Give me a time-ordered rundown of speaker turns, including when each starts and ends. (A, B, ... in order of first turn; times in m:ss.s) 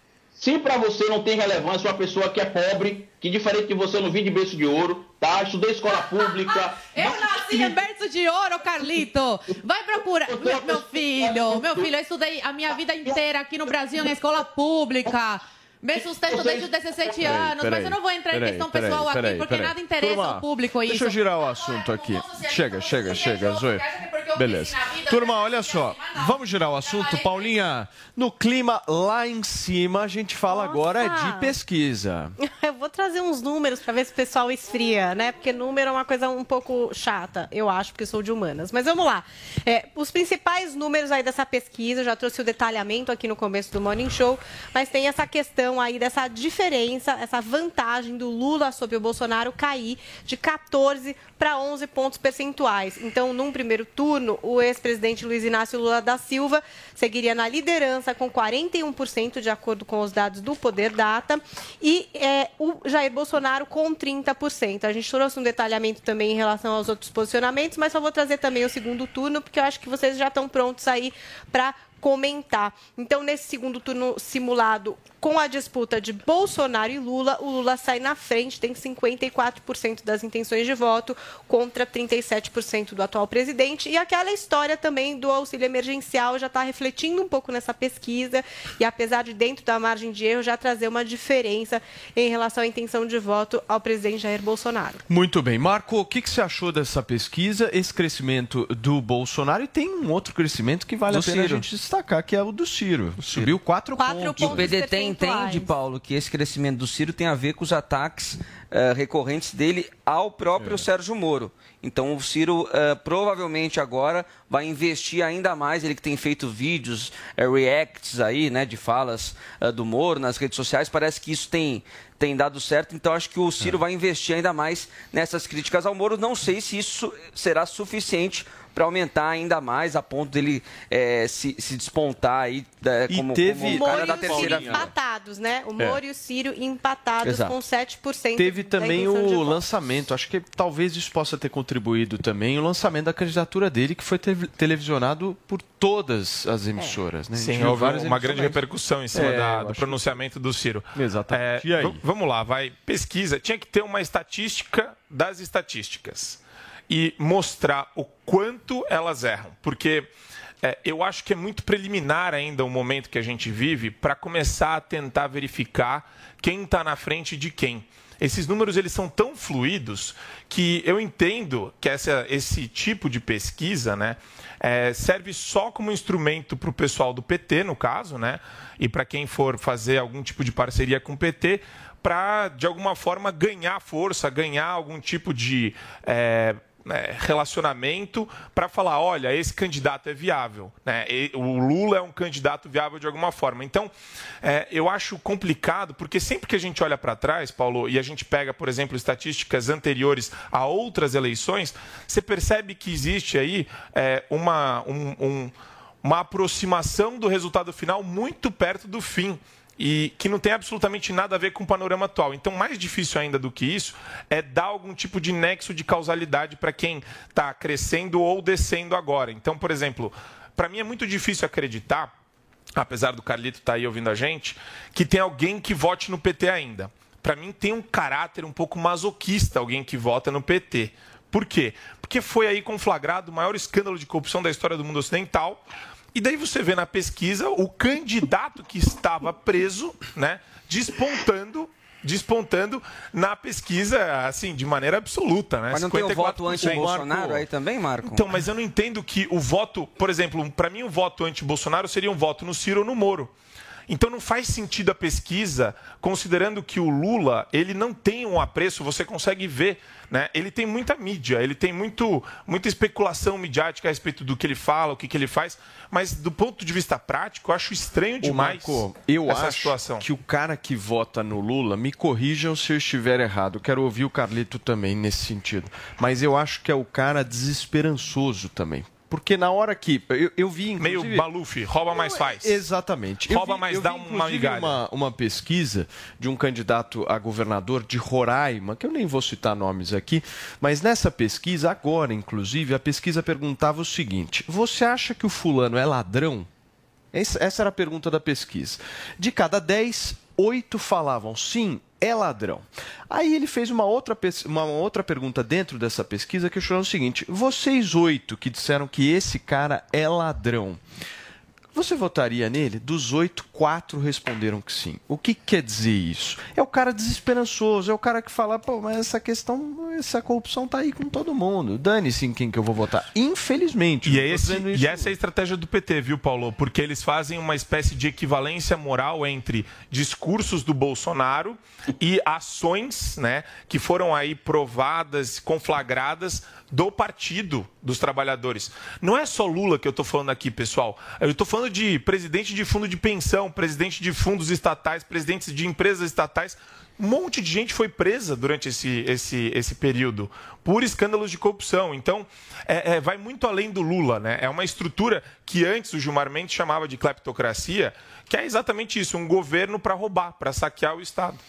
0:00.4-0:07.8 A
0:06.3-0:27.5 B
0:10.3-0:11.9 A
0:16.0-0:17.4 A
0:17.2-0:32.4 C
0:30.5-0:31.5 D
0:32.4-1:35.0 D
1:35.1-1:44.7 C
1:41.1-1:41.6 E
1:44.0-1:45.7 D
1:44.4-2:14.9 E
2:13.1-2:14.9 C
2:13.6-2:19.6 D
2:17.2-2:17.5 E
2:18.4-2:28.6 C
2:27.3-2:40.1 F
2:29.1-2:30.2 C
2:30.9-2:32.0 C
2:40.6-3:13.9 F
3:14.4-3:42.1 F
3:42.8-3:55.6 F
3:56.1-4:06.9 F
4:05.7-4:08.3 E
4:06.5-4:07.5 C
4:08.0-4:13.3 F
4:13.9-4:30.0 F
4:28.2-4:41.2 C
4:40.8-4:42.6 F
4:41.9-4:56.5 C
4:43.3-4:44.8 F
4:57.1-5:10.8 C
5:11.7-5:25.1 C
5:24.0-6:01.4 F